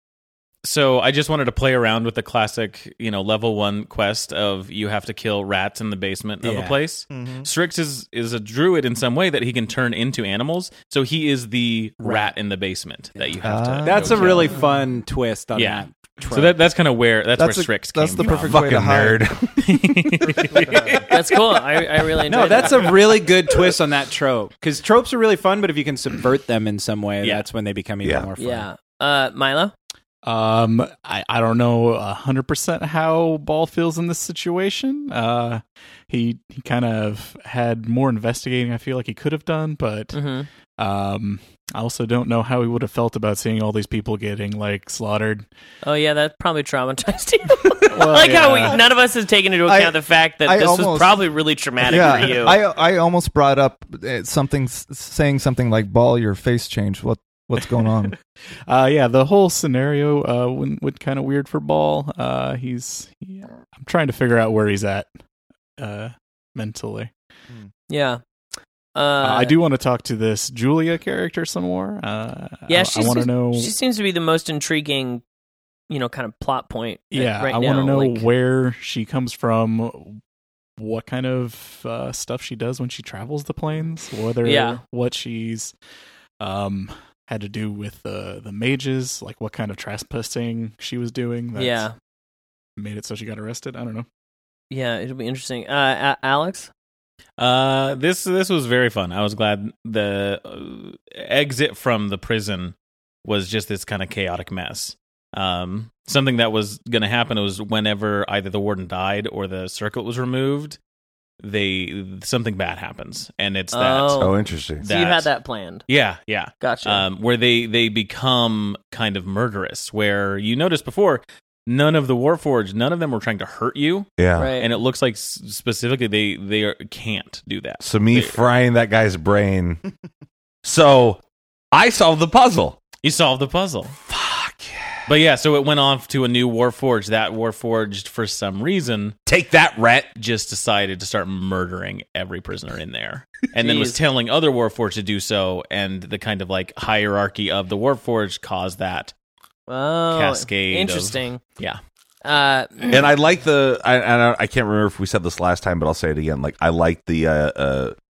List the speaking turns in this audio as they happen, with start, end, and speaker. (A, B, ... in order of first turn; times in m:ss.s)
0:00.6-0:14.6 A
0:06.4-0:06.8 B
0:07.1-0:07.5 C
0:12.0-0:12.3 B
0:13.4-0:14.6 C
0:13.8-0:16.6 B
0:15.5-0:18.8 A
0:17.4-0:19.6 C
0:18.2-0:19.5 D
0:19.6-0:21.1 A
0:20.2-0:21.1 C
0:21.1-0:23.2 E
0:22.2-0:28.7 B
0:27.2-0:27.5 A
0:28.0-0:28.3 D
0:28.4-0:29.7 E
0:30.2-0:40.2 F
0:40.1-0:40.5 E
0:40.8-0:45.4 F
0:45.8-0:52.6 E
0:48.0-0:48.8 F
0:48.0-0:48.8 C
0:49.6-0:51.2 C
0:51.8-0:58.2 C
0:58.6-1:05.1 F
1:05.8-1:07.1 F
1:07.9-1:08.2 E
1:08.9-1:09.5 E
1:09.2-1:13.7 F
1:12.7-1:15.2 E
1:15.9-1:18.2 E
1:17.1-1:20.2 F
1:20.8-1:25.7 F
1:24.4-1:24.8 E
1:26.4-1:31.9 F
1:31.6-1:31.9 E
1:32.8-1:34.1 F
1:34.7-1:36.7 E
1:37.4-1:50.8 A
1:51.4-1:54.2 A
1:53.7-1:55.8 E
1:54.2-1:54.9 D
1:54.8-1:55.3 A
1:55.9-2:08.4 A
1:56.6-1:57.1 E
2:04.2-2:04.5 D
2:04.3-2:04.7 E
2:07.8-2:09.8 D
2:10.6-2:11.2 D
2:11.7-2:12.8 D
2:13.0-2:14.0 A
2:14.1-2:14.5 D
2:15.1-2:19.2 A
2:19.3-2:20.1 D
2:20.1-2:29.1 A
2:23.6-2:24.0 E
2:29.7-2:31.4 E
2:30.1-2:31.8 A
2:32.2-2:33.1 E
2:32.9-2:37.9 D